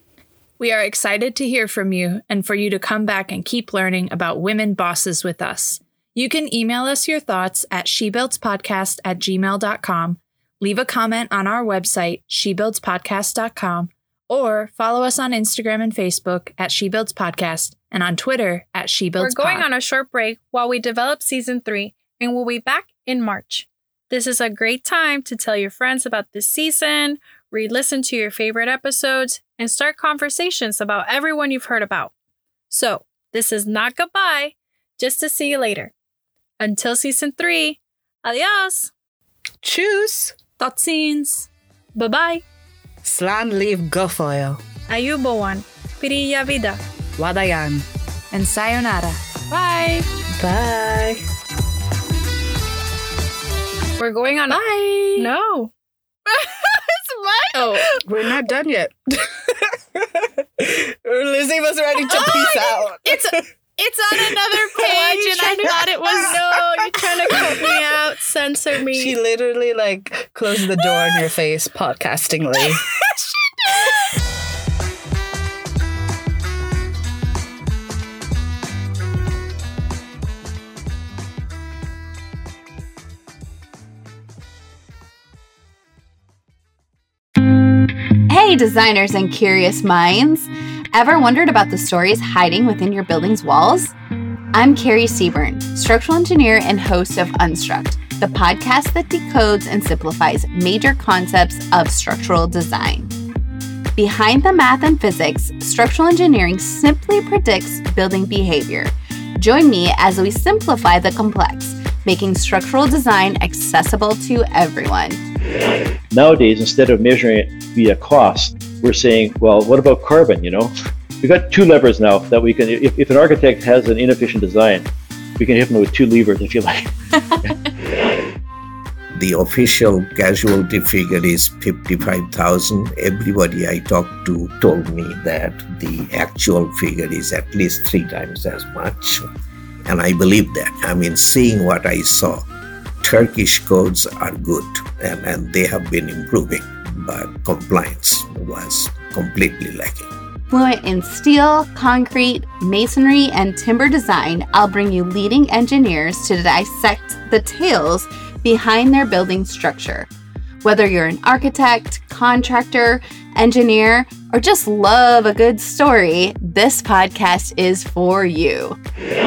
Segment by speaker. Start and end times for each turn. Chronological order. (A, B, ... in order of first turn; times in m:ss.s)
0:00.6-0:19.6 A
0:19.2-0:32.1 B
0:32.7-0:35.9 B
0:36.6-0:38.9 B
0:39.6-0:40.4 C
0:40.6-0:41.5 A
0:41.9-0:42.4 B
0:43.0-0:44.6 C
0:44.9-0:46.8 B
0:47.2-0:47.9 C
0:48.3-0:50.1 A
0:50.4-0:51.2 C
0:54.0-0:55.7 B
0:54.5-0:55.3 A
0:56.3-0:58.0 B
0:57.5-0:57.9 A
0:58.1-1:03.2 C
1:02.1-1:07.4 A
1:04.8-1:09.1 B
1:08.9-1:12.9 C
1:28.3-1:33.9 D
1:34.5-1:43.1 D
1:44.0-1:55.2 D
1:56.1-2:07.5 E
2:09.2-2:19.2 F
2:19.9-2:22.4 F
2:23.0-2:30.1 F
2:30.5-2:40.1 D
2:40.6-2:48.8 D